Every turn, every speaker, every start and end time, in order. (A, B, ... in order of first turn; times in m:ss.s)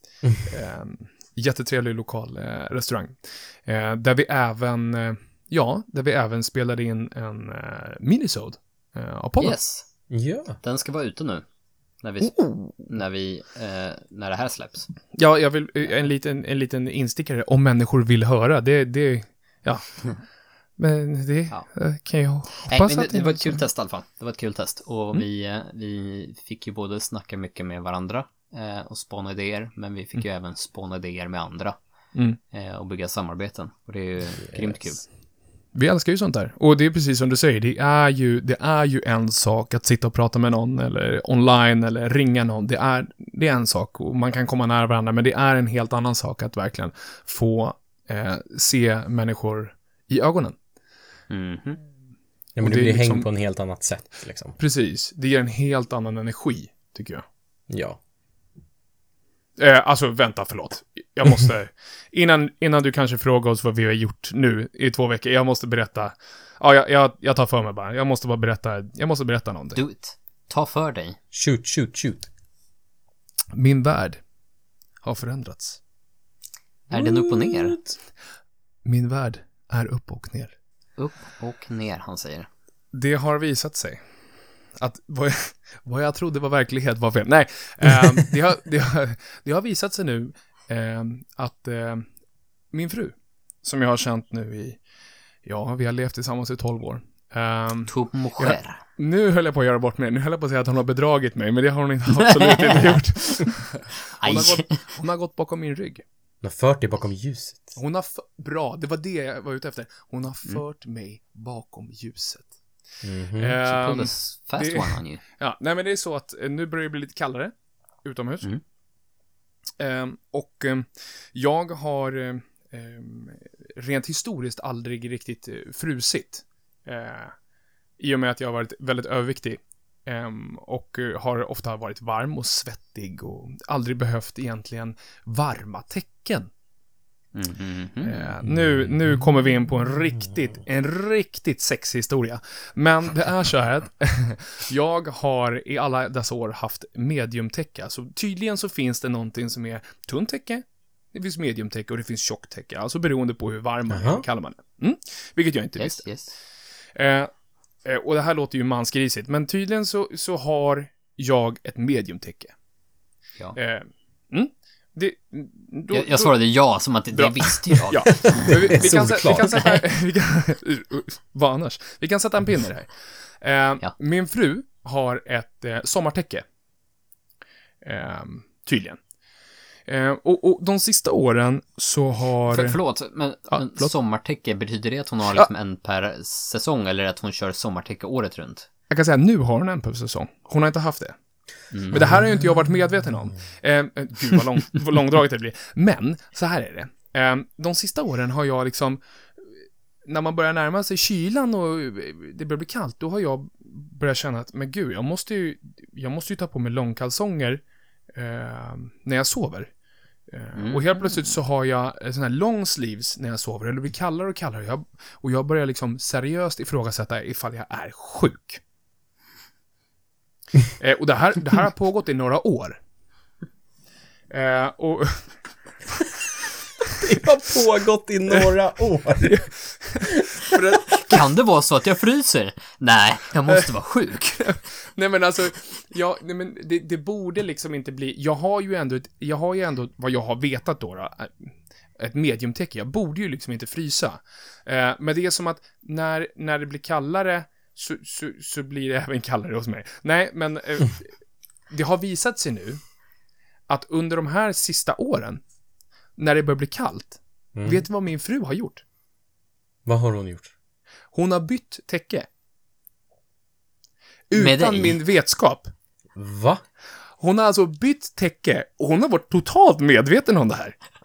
0:00.4-0:09.6 A
0:09.4-0:09.9 B
0:10.1-0:10.6 C
0:10.6-0:11.4 B
0:12.0-0:14.9 B
0:12.2-0:12.8 A
0:15.1-0:20.1 A
0:20.8-0:23.6 A
0:22.6-0:31.8 B
0:32.5-0:35.0 B
0:34.5-0:34.8 C
0:35.7-0:50.6 A
0:51.3-0:51.8 B
0:52.6-0:54.6 C
0:52.6-0:53.3 A
0:54.6-0:57.2 A
0:57.7-0:58.0 C
0:59.6-1:09.8 A
1:09.7-1:11.2 B
1:11.3-1:12.3 C
1:13.5-1:14.2 A
1:15.0-1:15.8 A
1:16.9-1:17.9 C
1:16.9-1:17.8 B
1:18.8-1:20.5 A
1:21.0-1:22.5 B
1:22.9-1:24.0 A
1:24.7-1:32.1 A
1:32.7-1:34.8 A
1:35.4-1:46.0 A
1:37.9-1:38.8 B
1:42.3-1:43.5 B
1:44.2-1:45.0 B
1:46.4-1:47.8 C
1:47.8-1:52.5 A
1:53.0-1:53.6 C
1:53.4-1:57.5 A
1:53.6-1:55.2 B
1:58.0-1:58.5 A
1:59.8-2:07.3 A
2:08.0-2:16.5 A
2:17.3-2:18.2 B
2:18.0-2:36.0 A
2:33.9-2:34.2 C
2:35.8-2:36.3 B
2:36.9-2:37.3 A
2:37.8-2:42.5 A
2:43.5-2:46.4 A
2:45.9-2:48.8 B
2:47.1-2:56.4 A
2:48.5-2:49.8 C
2:57.8-2:59.0 A
2:59.9-3:02.8 A
3:02.5-3:08.7 B
3:03.5-3:03.9 A
3:08.9-3:11.2 A
3:11.7-3:12.1 B
3:11.9-3:19.4 A
3:20.0-3:27.6 A
3:28.1-3:29.7 A
3:30.3-3:38.6 A
3:30.5-3:31.3 B
3:40.7-3:42.8 A
3:44.3-3:45.3 A
3:47.0-3:49.5 C
3:49.2-3:51.2 A
3:50.9-3:54.5 B
3:54.4-4:11.1 A
4:11.7-4:12.8 A
4:13.7-4:15.4 A
4:16.2-4:18.8 A
4:17.6-4:17.9 C
4:19.8-4:20.5 C
4:21.1-4:22.3 A
4:24.3-4:25.7 A
4:24.3-4:25.0 B
4:26.2-4:26.6 C
4:27.2-4:30.8 A